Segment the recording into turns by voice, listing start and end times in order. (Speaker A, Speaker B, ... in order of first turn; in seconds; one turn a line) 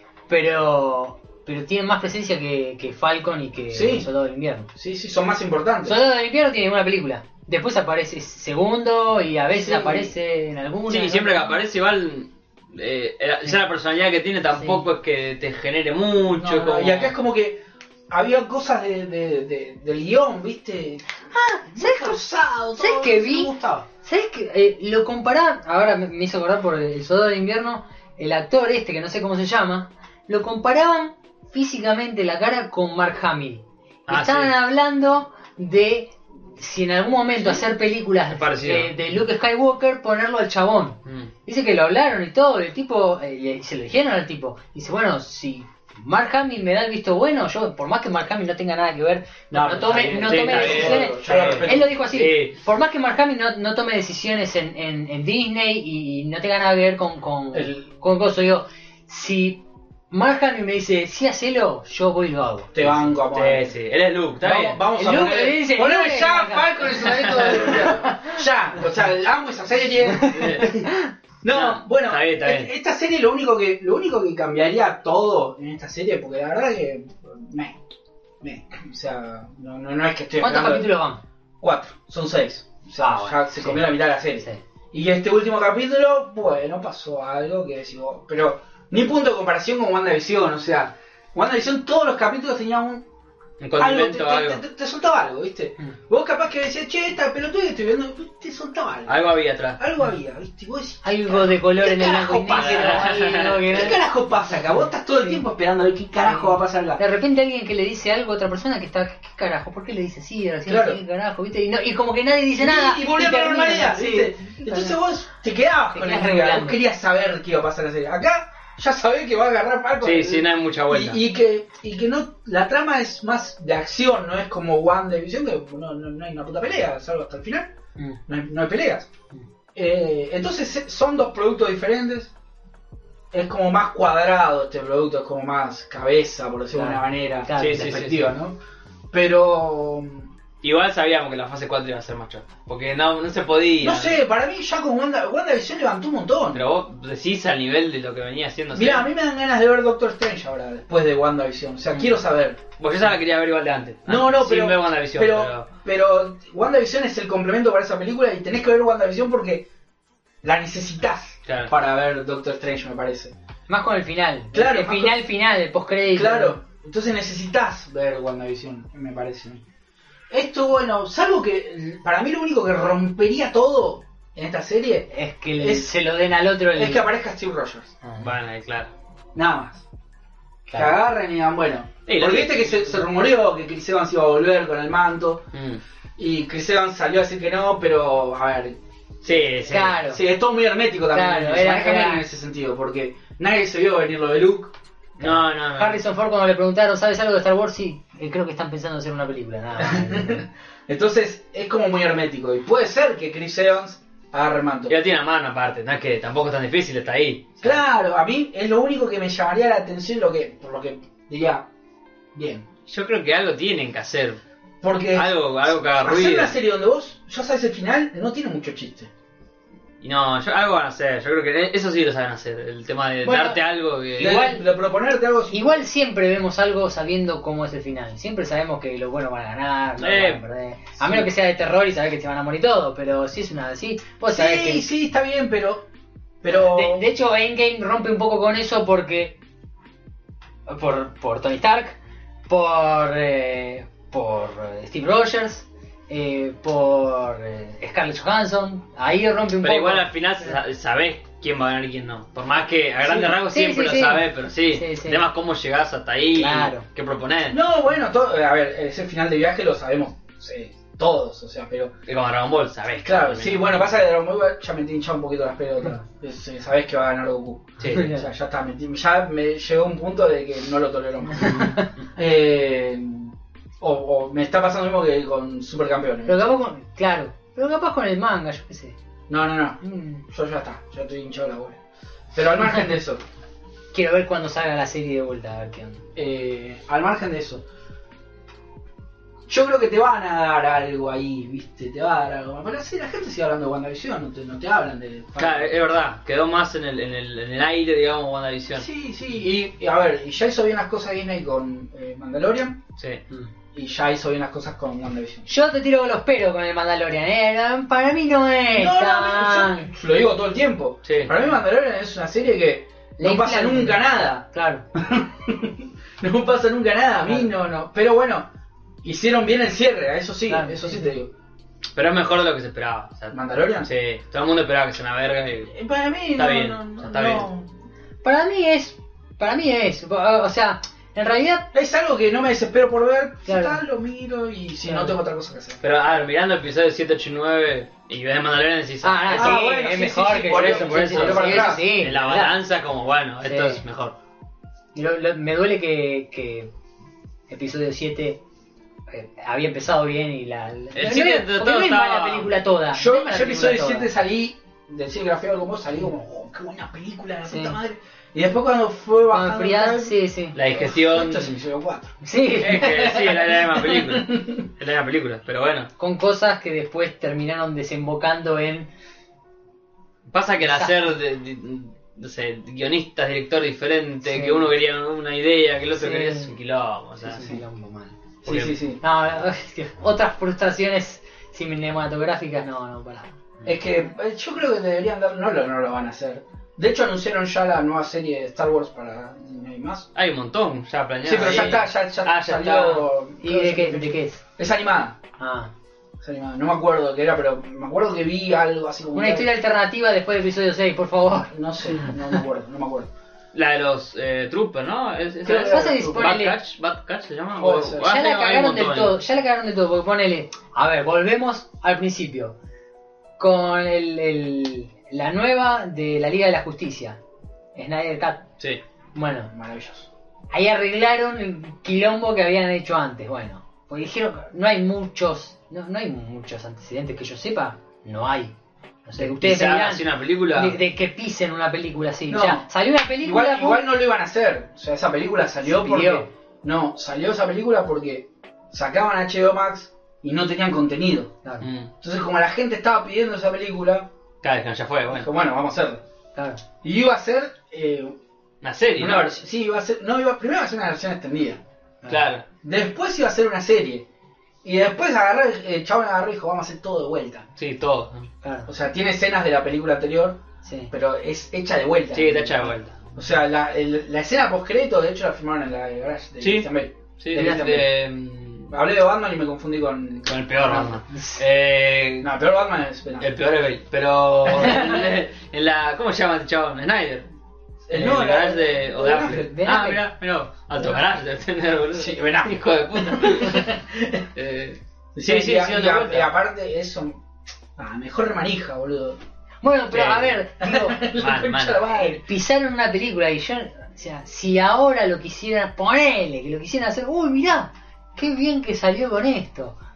Speaker A: 0.3-4.7
Speaker B: 3.7-4.1
Speaker B: 4.8-6.0
Speaker A: 5.8-11.6
Speaker B: 9.5-10.1
Speaker C: 10.9-17.1
Speaker A: 14.6-14.8
Speaker B: 16.3-21.1
Speaker A: 21.3-22.2
Speaker B: 21.6-23.9
Speaker A: 22.8-63.0
Speaker C: 34.1-34.5
Speaker C: 38.3-38.9
Speaker B: 49.5-51.9
Speaker C: 49.7-52.6
Speaker B: 57.5-57.8
Speaker B: 62.7-63.8
Speaker C: 63.2-64.8
Speaker B: 64.4-70.9
Speaker A: 65.0-68.4
Speaker C: 67.0-68.0
Speaker A: 70.2-71.1
Speaker C: 70.3-70.7
Speaker B: 71.4-77.8
Speaker C: 71.5-72.7
Speaker B: 78.4-80.9
Speaker A: 80.4-81.2
Speaker B: 81.6-93.1
Speaker A: 83.0-84.6
Speaker C: 93.6-94.6
Speaker B: 93.8-107.0
Speaker C: 99.1-99.8
Speaker A: 101.0-104.0
Speaker C: 102.5-103.7
Speaker A: 106.2-115.0
Speaker B: 110.7-111.0
Speaker B: 112.6-127.7
Speaker A: 115.9-116.8
Speaker C: 120.0-121.2
Speaker B: 128.3-129.1
Speaker B: 129.8-132.3
Speaker B: 133.3-138.6
Speaker A: 136.8-138.0
Speaker C: 137.6-138.3
Speaker B: 139.1-140.3
Speaker C: 140.6-144.2
Speaker B: 143.8-146.6
Speaker C: 146.5-149.1
Speaker B: 148.7-152.6
Speaker C: 152.8-155.7
Speaker B: 154.1-159.7
Speaker B: 160.4-163.3
Speaker C: 161.5-161.7
Speaker A: 163.7-166.6
Speaker B: 164.5-165.2
Speaker B: 166.1-169.6
Speaker B: 170.3-175.9
Speaker A: 175.1-177.1
Speaker B: 176.8-177.9
Speaker A: 178.0-178.3
Speaker C: 178.2-178.9
Speaker B: 179.3-179.8
Speaker A: 180.7-181.0
Speaker B: 180.8-185.4
Speaker C: 182.1-183.0
Speaker C: 185.5-185.8
Speaker B: 186.2-188.8
Speaker C: 189.2-189.9
Speaker B: 189.3-194.7
Speaker A: 189.7-190.2
Speaker A: 191.1-192.2
Speaker C: 195.2-196.0
Speaker A: 195.2-200.4
Speaker B: 199.8-205.0
Speaker C: 204.9-207.8
Speaker B: 207.6-211.7
Speaker B: 212.3-212.7
Speaker C: 212.9-214.4
Speaker B: 214.8-219.1
Speaker C: 215.1-216.6
Speaker C: 220.0-224.4
Speaker B: 223.2-223.6
Speaker B: 224.2-225.8
Speaker A: 224.2-224.6
Speaker A: 225.5-234.9
Speaker C: 230.0-230.4
Speaker B: 231.0-231.3
Speaker B: 234.3-235.8
Speaker B: 236.4-237.1
Speaker A: 236.5-239.4
Speaker A: 240.7-242.0
Speaker A: 242.5-250.6
Speaker C: 249.6-257.6
Speaker A: 253.1-255.3
Speaker A: 256.4-256.9
Speaker B: 257.5-261.9
Speaker C: 262.1-264.0
Speaker B: 263.1-276.6
Speaker C: 267.8-268.1
Speaker A: 267.9-268.3
Speaker A: 271.3-271.9
Speaker A: 276.3-279.0
Speaker B: 279.3-281.8
Speaker A: 279.8-280.2
Speaker B: 282.3-283.2
Speaker A: 283.9-286.1
Speaker B: 286.2-287.6
Speaker B: 289.5-295.7
Speaker C: 295.4-298.9
Speaker B: 298.8-302.8
Speaker B: 303.7-305.5
Speaker A: 305.5-309.9
Speaker B: 308.7-318.5
Speaker C: 311.1-311.3
Speaker A: 313.2-314.9
Speaker B: 319.0-321.3
Speaker A: 320.5-321.1
Speaker C: 322.0-325.8
Speaker B: 323.3-323.9
Speaker B: 325.7-327.7
Speaker C: 326.4-327.5
Speaker A: 328.2-331.7
Speaker B: 331.7-335.8
Speaker A: 333.5-333.8
Speaker A: 334.9-335.2
Speaker C: 335.8-339.6
Speaker A: 339.0-342.6
Speaker B: 339.3-341.9
Speaker C: 340.5-344.1
Speaker A: 343.4-343.8
Speaker A: 344.9-346.7
Speaker A: 347.5-348.4
Speaker A: 349.1-354.1
Speaker C: 350.9-352.5
Speaker B: 352.9-360.1
Speaker A: 357.5-357.8
Speaker A: 359.3-360.6
Speaker C: 360.6-361.5
Speaker B: 360.7-362.1
Speaker A: 362.2-363.2
Speaker C: 362.6-365.9
Speaker B: 363.1-364.6
Speaker A: 366.0-368.9
Speaker C: 370.3-377.5
Speaker A: 370.6-371.1
Speaker A: 374.2-374.7
Speaker A: 375.9-376.5
Speaker A: 377.3-378.2
Speaker C: 378.4-378.8
Speaker B: 378.5-379.0
Speaker A: 379.0-383.8
Speaker B: 383.7-390.1
Speaker C: 390.1-393.1
Speaker B: 391.2-395.2
Speaker A: 393.4-394.4
Speaker A: 395.4-395.7
Speaker B: 396.2-399.5
Speaker A: 399.1-401.5
Speaker B: 401.5-403.1
Speaker A: 402.1-402.4
Speaker C: 403.5-409.2
Speaker B: 405.4-406.4
Speaker A: 405.5-406.6
Speaker B: 407.6-408.1
Speaker A: 408.0-412.6
Speaker A: 413.4-417.2
Speaker A: 417.8-418.5
Speaker A: 419.1-419.5
Speaker B: 419.5-420.1
Speaker A: 420.5-428.5
Speaker A: 429.1-433.8
Speaker C: 429.2-430.8
Speaker B: 432.3-441.3
Speaker A: 435.6-436.3
Speaker C: 441.6-441.9
Speaker B: 442.0-444.1
Speaker C: 444.4-445.3
Speaker B: 445.1-446.0
Speaker A: 446.4-446.6
Speaker B: 446.8-448.2
Speaker C: 448.6-449.4
Speaker B: 449.0-451.6
Speaker C: 452.1-452.4
Speaker B: 452.6-454.1
Speaker B: 454.6-457.5
Speaker C: 457.6-458.3
Speaker A: 458.4-458.7
Speaker B: 458.7-467.9
Speaker A: 460.6-460.9
Speaker C: 462.1-463.0
Speaker C: 466.4-466.7
Speaker C: 467.2-468.7
Speaker B: 468.7-471.0
Speaker C: 470.3-472.3
Speaker A: 471.1-471.4
Speaker B: 472.2-473.3
Speaker C: 473.2-477.3
Speaker A: 474.5-475.1
Speaker B: 477.9-479.5
Speaker C: 477.9-483.8
Speaker A: 479.5-480.0
Speaker B: 481.9-484.2
Speaker C: 484.4-486.3
Speaker B: 485.1-487.2
Speaker B: 487.8-489.2
Speaker A: 489.6-491.0
Speaker C: 489.9-490.4
Speaker B: 490.6-492.2
Speaker C: 491.1-491.9
Speaker A: 491.9-499.8